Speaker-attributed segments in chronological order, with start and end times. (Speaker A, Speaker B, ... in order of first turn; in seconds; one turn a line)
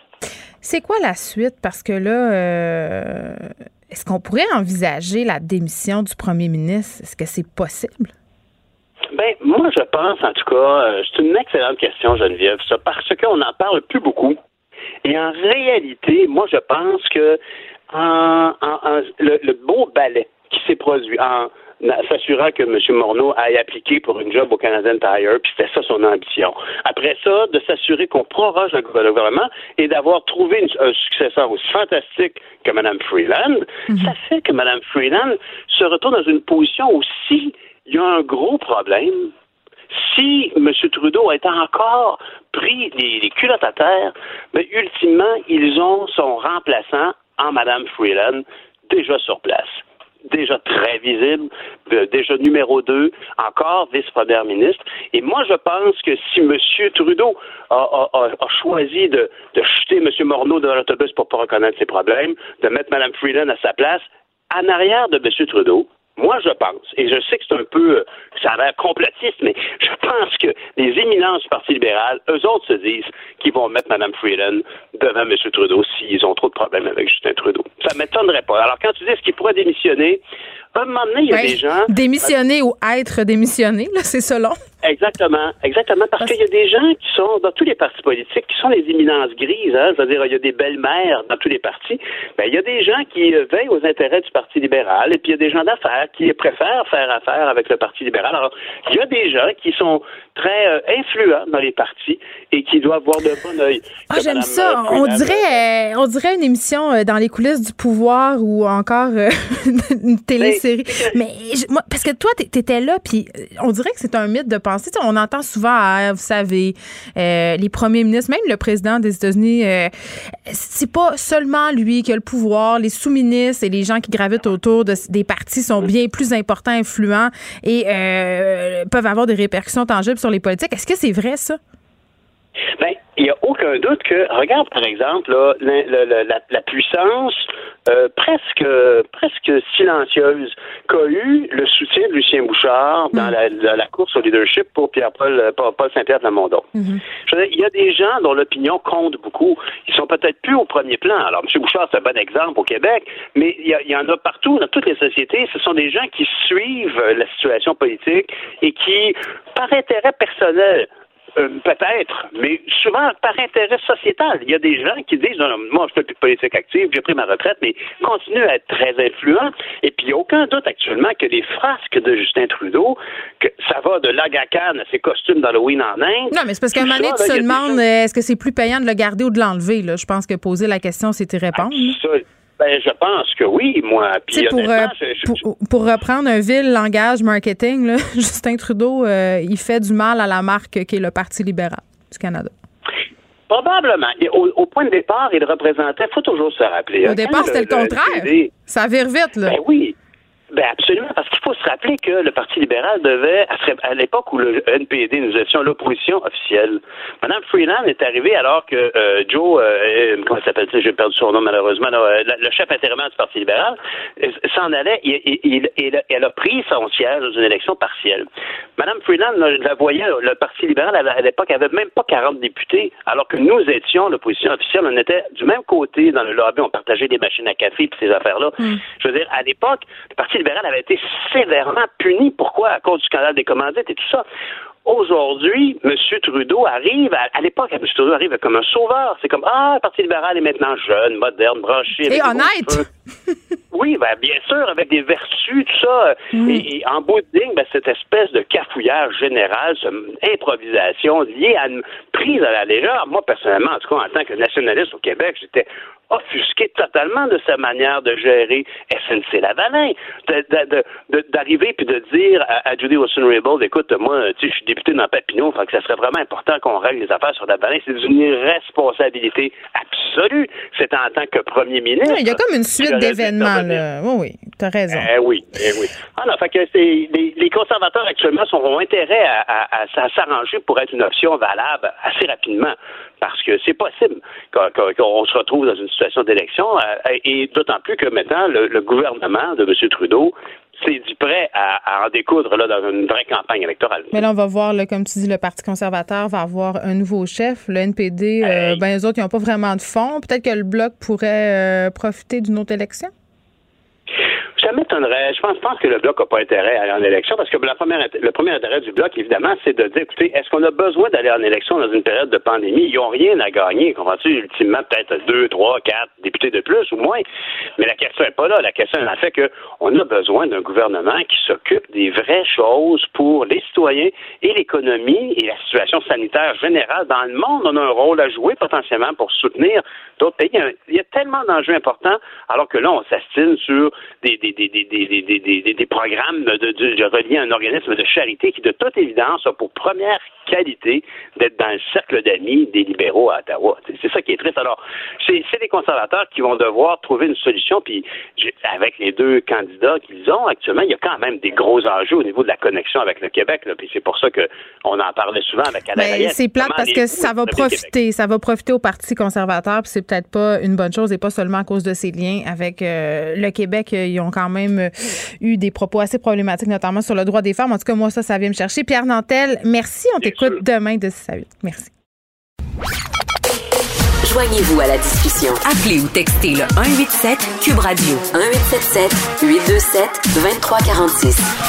Speaker A: 0.6-8.1
Speaker B: 9.1-14.4
Speaker B: 15.0-17.4
Speaker B: 17.9-39.3
Speaker B: 39.9-80.2
Speaker B: 80.7-81.9
Speaker A: 81.3-84.6
Speaker B: 84.8-105.5
Speaker A: 104.1-131.6
Speaker B: 110.4-111.2
Speaker B: 132.8-146.7
Speaker B: 147.3-177.8
Speaker A: 176.3-182.0
Speaker B: 181.6-185.4
Speaker A: 184.3-192.5
Speaker B: 193.5-198.5
Speaker A: 197.0-199.6
Speaker B: 199.4-200.0
Speaker B: 200.5-218.3
Speaker B: 218.8-234.2
Speaker B: 234.8-242.9
Speaker A: 242.1-243.4
Speaker B: 243.7-273.8
Speaker A: 246.4-246.7
Speaker A: 272.0-275.1
Speaker B: 274.9-294.2
Speaker A: 294.1-303.1
Speaker B: 298.4-298.8
Speaker B: 304.6-317.2
Speaker B: 317.8-357.9
Speaker A: 356.0-371.9
Speaker B: 370.2-370.6
Speaker C: 374.2-381.5